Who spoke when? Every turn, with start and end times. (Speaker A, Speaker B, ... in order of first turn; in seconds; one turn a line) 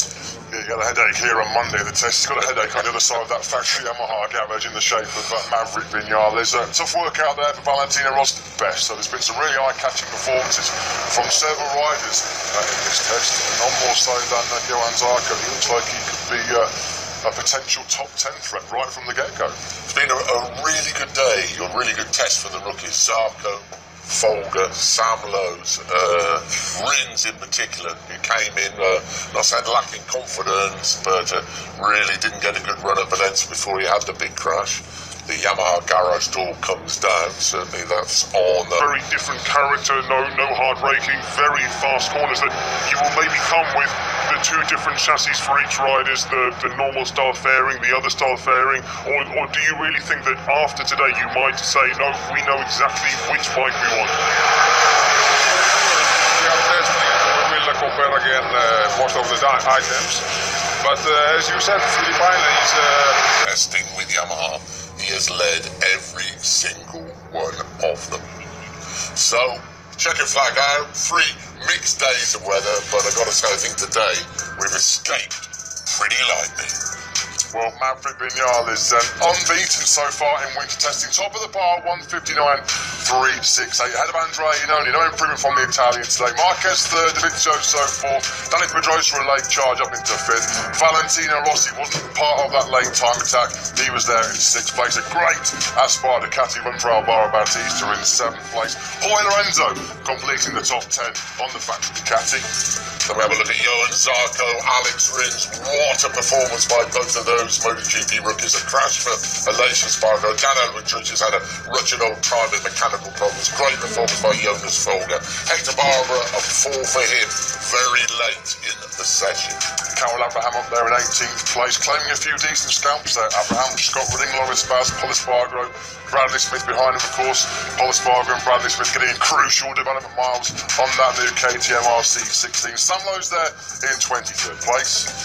Speaker A: 0.5-19.6
Speaker B: 19.9-38.9
Speaker C: 38.8-54.2
Speaker D: 56.2-60.2
Speaker D: 60.8-63.3
Speaker B: 63.4-68.2
Speaker B: 69.1-76.8
Speaker A: 77.5-102.5
Speaker B: 103.1-119.6
Speaker A: 119.9-135.1